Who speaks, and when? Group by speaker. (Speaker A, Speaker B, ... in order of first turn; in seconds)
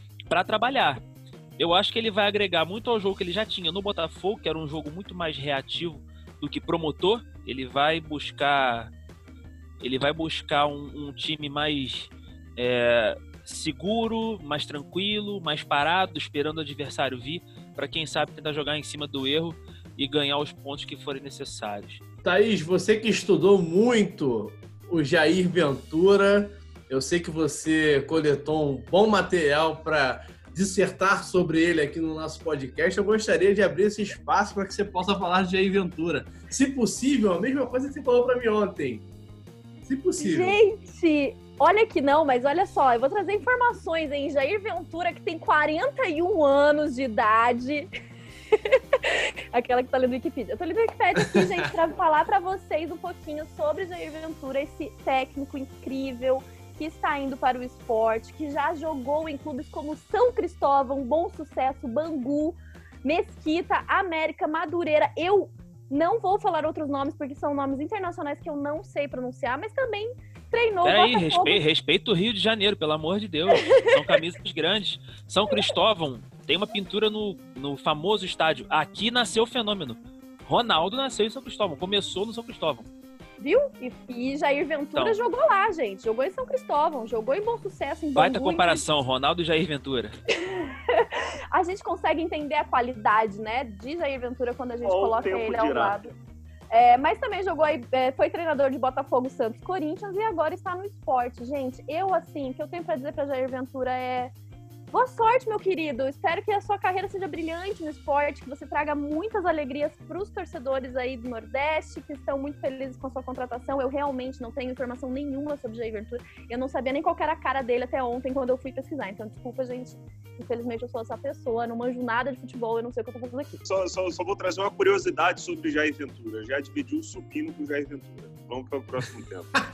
Speaker A: 0.3-1.0, 1.6-8.9, 9.8-22.0, 70.8-82.8, 88.2-90.1
Speaker B: 22.2-39.0, 39.8-40.6
Speaker C: 40.2-47.9, 48.6-71.6, 83.4-88.8, 90.5-96.1, 96.7-104.3, 104.9-123.6
Speaker D: 94.8-96.1, 123.6-129.5